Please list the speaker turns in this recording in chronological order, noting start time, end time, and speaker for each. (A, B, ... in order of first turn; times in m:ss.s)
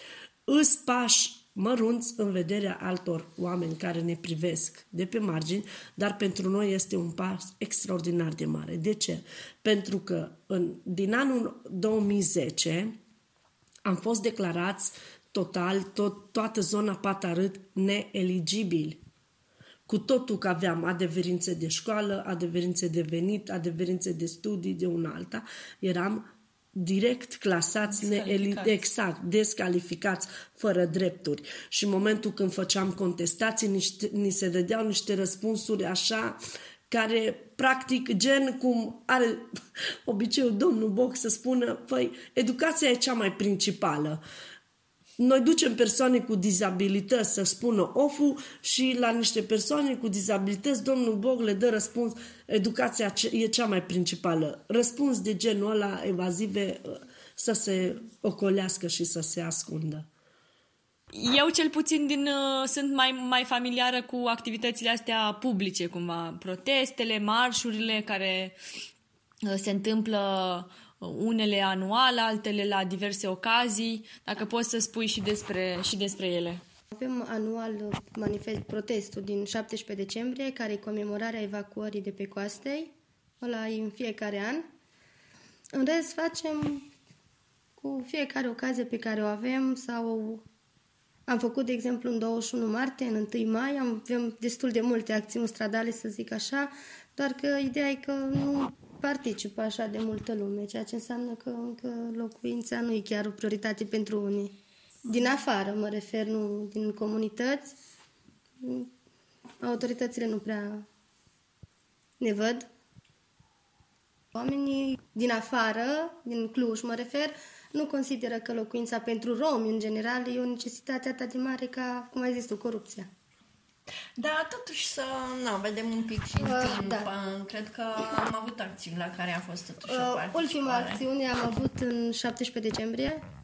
0:00.5-0:13.0 A
0:13.8-0:19.0 A
0:19.9-0:36.4 A
0:27.9-0:28.8 B
0:36.9-0:39.5 A
0:40.0-0:44.2 A
0:45.2-1:00.1 A
1:01.1-1:08.6 B
1:09.4-1:16.6 B
1:16.9-1:24.6 C
1:25.7-1:26.9 C
1:27.8-1:30.4 C
1:31.3-1:44.5 C
1:45.1-1:47.7 C
1:48.6-1:48.9 C
1:49.6-1:50.8 C
1:52.2-1:52.6 C
1:54.3-2:03.1 C
2:04.2-2:11.0 D
2:06.4-2:07.1 C
2:09.9-2:13.2 C